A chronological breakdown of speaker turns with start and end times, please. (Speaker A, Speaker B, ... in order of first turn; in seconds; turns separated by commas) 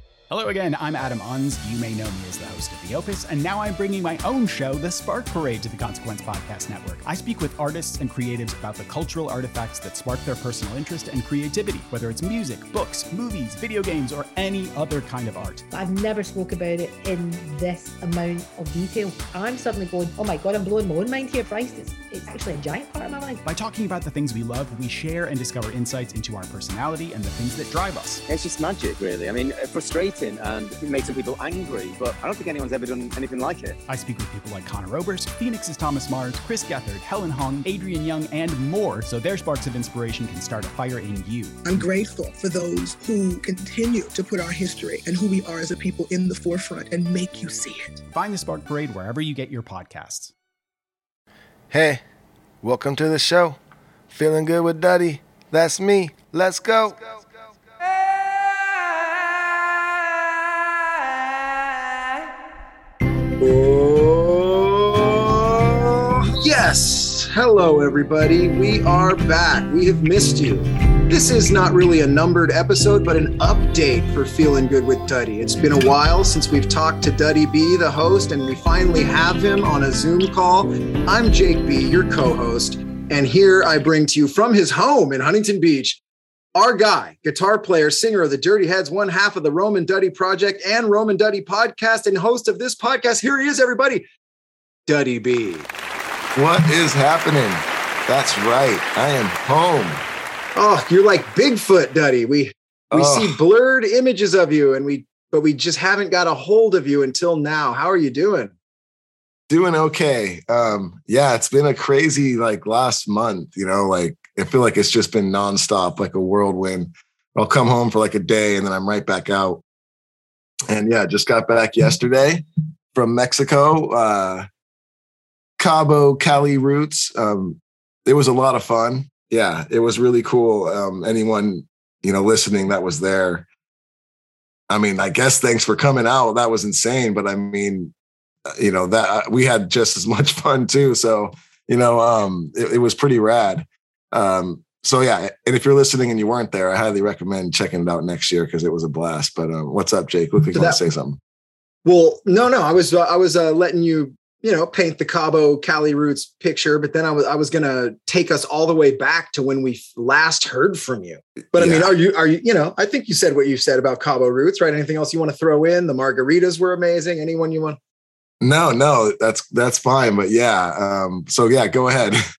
Speaker A: 0.3-15.6, Speaker B: 15.7-23.4, Speaker A: 23.4-28.2, Speaker C: 28.3-33.8, Speaker A: 33.9-41.6, Speaker D: 41.6-48.0, Speaker A: 48.1-50.3, Speaker E: 51.7-52.0, Speaker E: 52.6-53.6, Speaker E: 54.1-57.0, Speaker F: 63.4-86.0, Speaker F: 86.5-94.0, Speaker F: 94.9-95.7, Speaker E: 96.3-100.0, Speaker F: 100.5-108.5, Speaker E: 102.9-103.4, Speaker E: 109.5-119.6, Speaker E: 120.7-124.5, Speaker E: 125.6-133.4, Speaker E: 134.7-137.9, Speaker E: 138.5-151.2, Speaker F: 150.5-150.8, Speaker F: 151.8-167.8, Speaker E: 161.5-161.9, Speaker E: 168.4-172.2